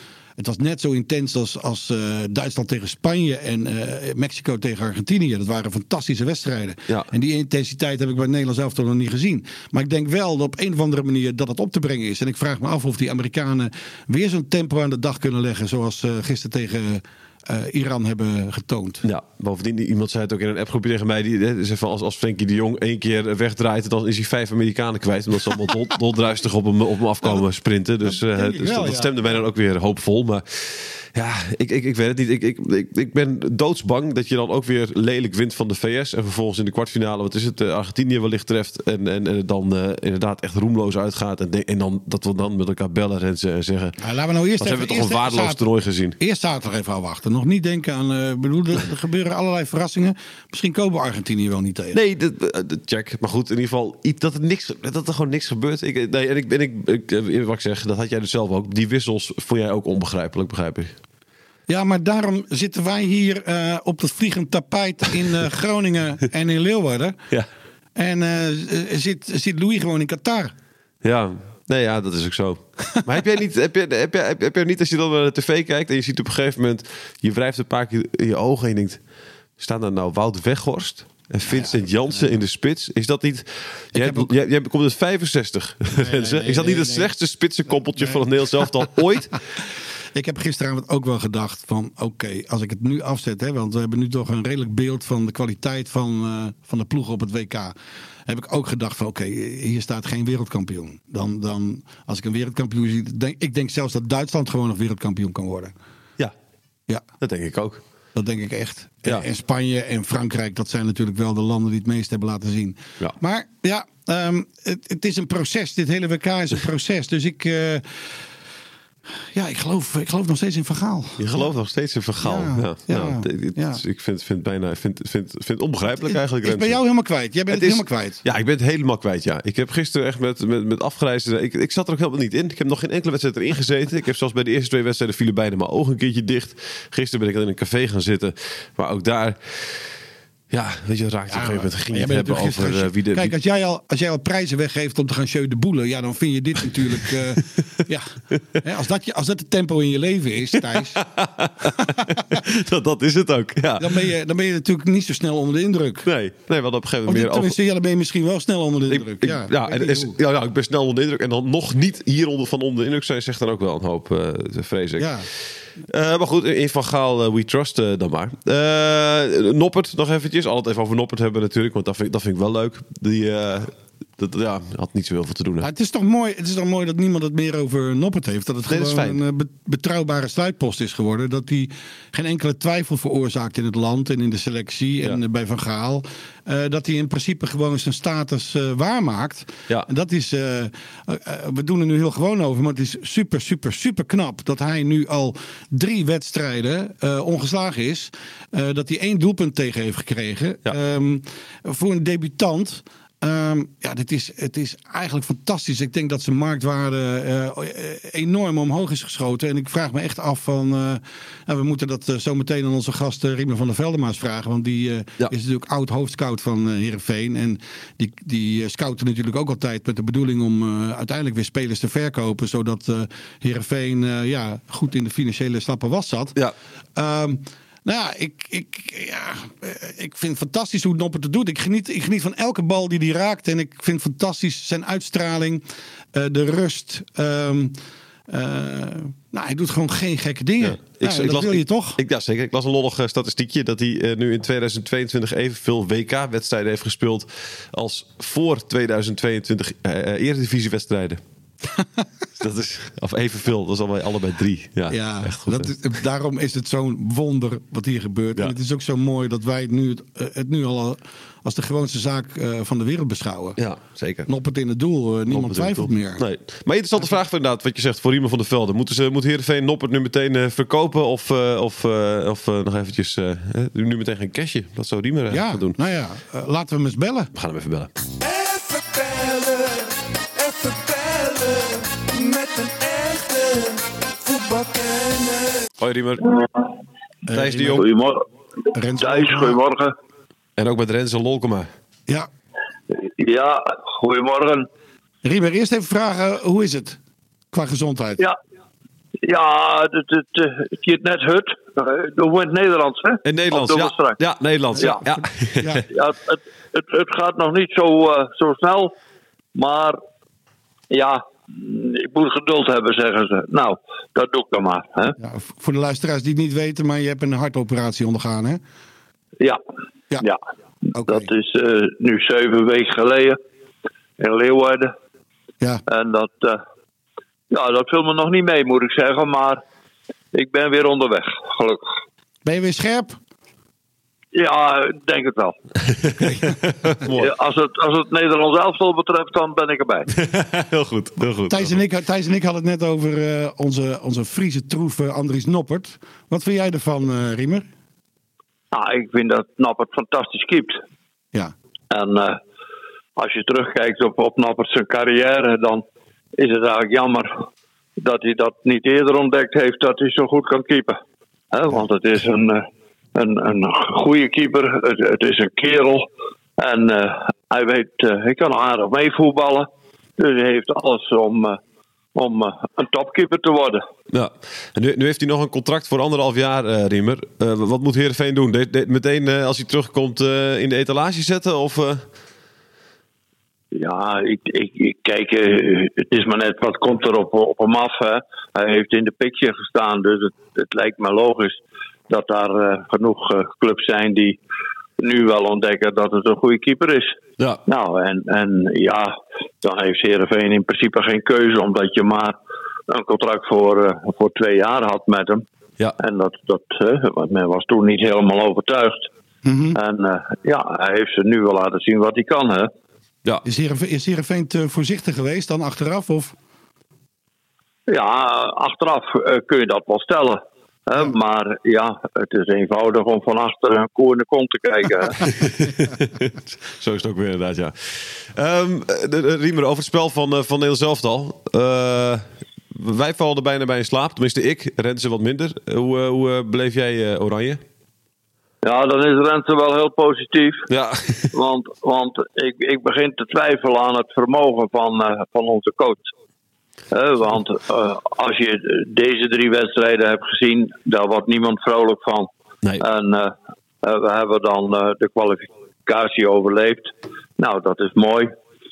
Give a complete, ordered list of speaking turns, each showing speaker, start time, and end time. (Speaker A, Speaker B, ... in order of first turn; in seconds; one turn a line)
Speaker A: 0.4-19.0
Speaker B: 19.0-44.0
Speaker A: 28.1-29.4
Speaker A: 44.0-45.6
Speaker B: 44.6-46.2
Speaker A: 46.2-52.0
Speaker B: 51.9-61.0
Speaker A: 61.7-67.2
Speaker A: 68.0-70.5
Speaker B: 71.0-79.0
Speaker B: 79.6-89.3
Speaker A: 81.5-82.3
Speaker A: 83.9-84.3
Speaker A: 85.9-87.1
Speaker A: 90.1-97.7
Speaker A: 98.3-105.7
Speaker B: 107.2-107.8
Speaker A: 108.1-118.0
Speaker A: 119.3-121.5
Speaker B: 121.2-126.8
Speaker A: 122.2-123.8
Speaker A: 126.0-128.2
Speaker B: 127.5-139.9
Speaker B: 140.5-143.3
Speaker A: 141.3-151.0
Speaker B: 150.7-154.1
Speaker A: 151.8-152.4
Speaker A: 153.8-156.1
Speaker B: 156.0-157.6
Speaker A: 157.1-160.1
Speaker B: 158.9-165.4
Speaker A: 165.0-165.3
Speaker B: 165.9-175.7
Speaker A: 175.6-226.3
Speaker B: 178.7-179.2
Speaker A: 226.9-235.6
Speaker A: 236.1-237.8
Speaker A: 238.3-242.0
Speaker B: 240.6-251.2
Speaker B: 252.4-255.7
Speaker A: 254.9-263.6
Speaker B: 263.6-264.3
Speaker A: 264.3-266.2
Speaker B: 265.3-275.8
Speaker A: 275.3-277.3
Speaker B: 277.3-277.9
Speaker C: 278.2-285.7
Speaker B: 285.8-286.4
Speaker A: 287.3-287.9
Speaker B: 287.3-287.9
Speaker D: 287.7-288.2
Speaker A: 288.7-289.6
Speaker D: 288.9-289.9
Speaker B: 290.6-291.7
Speaker D: 292.9-294.7
Speaker A: 295.2-297.0
Speaker A: 297.5-298.2
Speaker D: 299.2-304.2
Speaker B: 303.2-305.8
Speaker D: 304.8-305.0
Speaker A: 305.6-305.9
Speaker D: 305.9-308.9
Speaker D: 309.5-310.0
Speaker D: 310.9-315.2
Speaker A: 315.2-318.6
Speaker A: 320.9-321.3
Speaker D: 321.0-323.4
Speaker D: 324.2-324.9
Speaker D: 325.9-326.6
Speaker D: 327.5-329.6
Speaker D: 330.3-331.9
Speaker A: 332.4-333.2
Speaker D: 334.3-335.6
Speaker B: 336.0-337.3
Speaker A: 336.2-336.5
Speaker D: 337.1-340.1
Speaker B: 340.1-341.8
Speaker A: 341.4-347.7
Speaker D: 348.7-350.8
Speaker D: 351.9-352.4
Speaker D: 353.2-355.8
Speaker D: 356.4-357.4
Speaker D: 358.0-361.0
Speaker D: 361.5-371.6
Speaker D: 372.1-373.8
Speaker B: 374.1-382.1
Speaker D: 383.7-394.4
Speaker D: 395.0-402.4
Speaker D: 402.9-405.4
Speaker D: 406.0-409.1
Speaker A: 409.4-409.8
Speaker D: 409.7-412.7
Speaker A: 413.4-416.3
Speaker D: 417.9-425.2
Speaker B: 425.2-437.6
Speaker D: 438.6-440.7
Speaker B: 440.7-441.3
Speaker D: 441.3-446.1
Speaker D: 446.9-452.3
Speaker D: 452.8-458.3